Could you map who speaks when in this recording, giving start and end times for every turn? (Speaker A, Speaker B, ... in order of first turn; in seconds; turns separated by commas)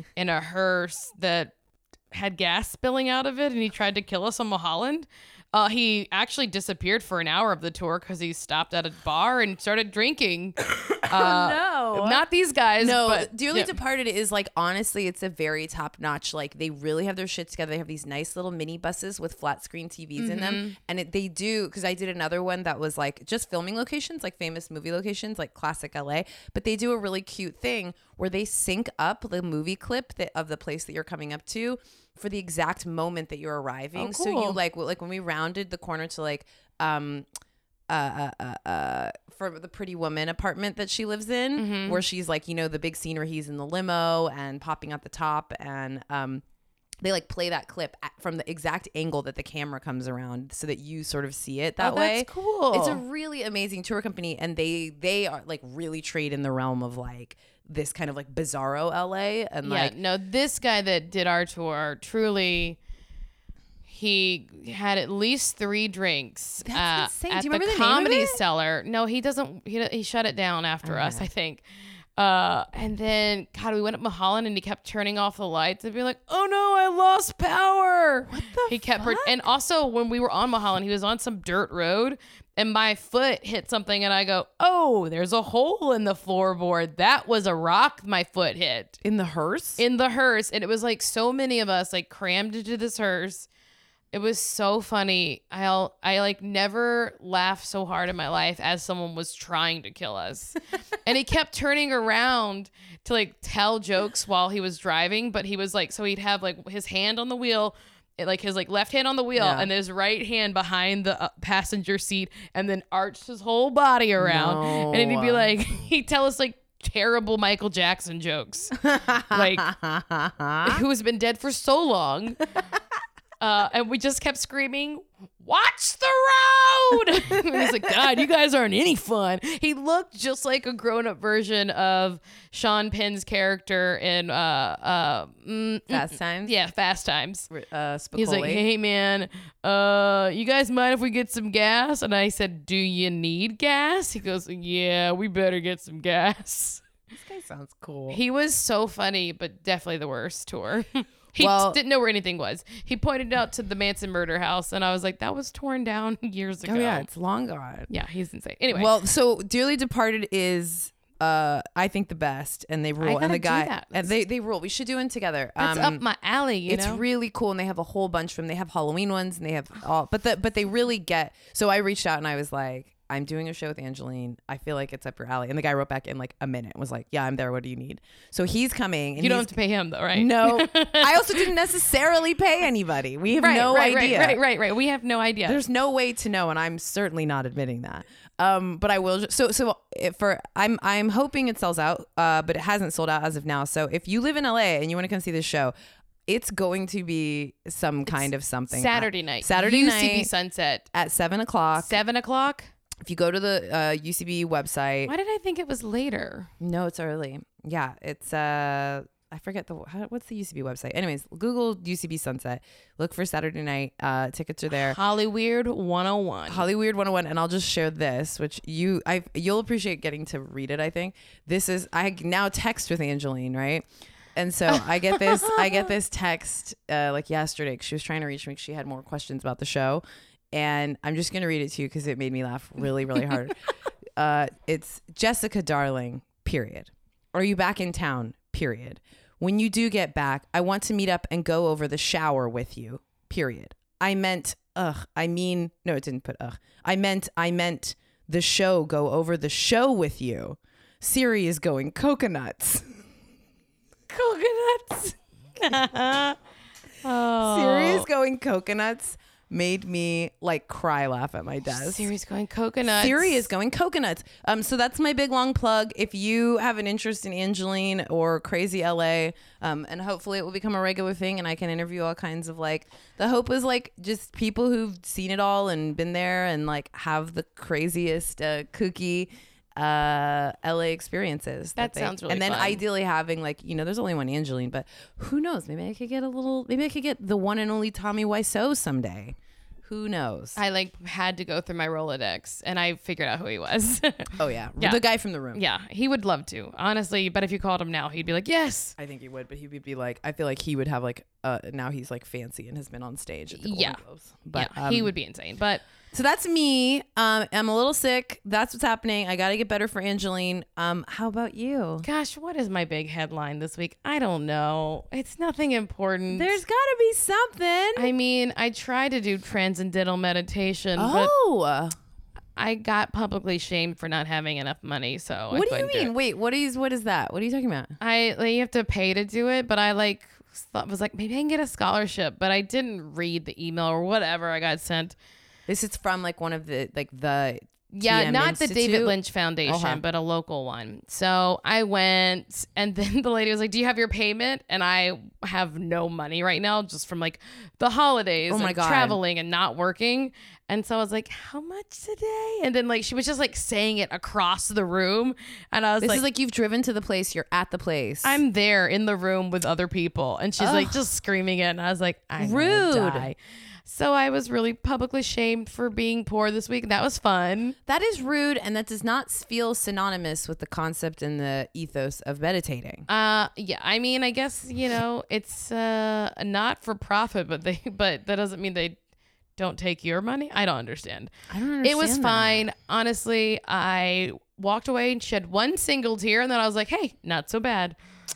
Speaker A: 0.1-1.5, Speaker A: 2.1-13.7, Speaker B: 11.1-12.2, Speaker B: 12.8-37.2, Speaker A: 20.2-20.8, Speaker A: 33.9-34.6, Speaker B: 37.9-46.4, Speaker A: 41.5-42.0, Speaker B: 47.0-59.9, Speaker A: 51.8-53.0, Speaker A: 59.6-62.8, Speaker A: 63.9-71.6, Speaker B: 66.6-68.4, Speaker B: 70.8-71.3, Speaker A: 72.2-89.0, Speaker B: 78.3-79.4, Speaker B: 89.0-89.8, Speaker A: 89.8-93.5, Speaker A: 94.1-119.7, Speaker B: 109.3-109.7, Speaker B: 114.2-115.5, Speaker B: 118.8-120.8, Speaker A: 120.6-122.5, Speaker A: 123.4-137.5, Speaker B: 135.9-136.5, Speaker B: 137.5-138.6, Speaker A: 138.1-146.8, Speaker B: 147.1-148.2, Speaker A: 148.1-157.1, Speaker B: 151.4-151.8, Speaker B: 156.6-157.9, Speaker A: 157.9-158.9, Speaker B: 158.7-166.0, Speaker A: 163.0-164.1, Speaker A: 165.6-167.0, Speaker B: 166.7-179.5, Speaker A: 179.2-181.5, Speaker B: 180.1-184.4, Speaker A: 183.3-185.6, Speaker B: 185.4-195.7, Speaker B: 196.3-200.3, Speaker A: 198.1-200.8, Speaker B: 200.9-202.0, Speaker A: 201.8-202.7, Speaker B: 203.0-205.1, Speaker A: 205.1-206.5, Speaker B: 206.6-215.0, Speaker A: 214.7-216.7, Speaker B: 216.5-233.6, Speaker A: 224.7-225.9, Speaker B: 234.2-253.0, Speaker A: 254.1-256.4, Speaker A: 257.0-258.1, Speaker B: 257.4-262.1, Speaker A: 261.7-263.5, Speaker B: 262.8-290.6, Speaker A: 281.8-282.8, Speaker A: 290.6-295.0, Speaker B: 294.4-295.6, Speaker A: 295.5-298.9, Speaker B: 299.0-305.1, Speaker A: 303.5-304.0, Speaker A: 304.5-305.8, Speaker B: 306.1-312.1, Speaker A: 312.0-316.6, Speaker B: 316.3-318.1, Speaker A: 317.9-321.3, Speaker B: 321.0-321.9, Speaker A: 322.6-326.1, Speaker B: 325.5-327.9, Speaker A: 328.0-335.1, Speaker B: 335.7-340.0, Speaker A: 337.9-356.2, Speaker B: 348.5-349.2, Speaker B: 356.0-358.4, Speaker A: 358.2-367.8, Speaker B: 360.6-361.0, Speaker B: 362.4-363.3, Speaker B: 367.9-373.1, Speaker A: 373.1-379.0, Speaker A: 379.6-381.3, Speaker B: 381.5-382.6, Speaker A: 381.8-387.9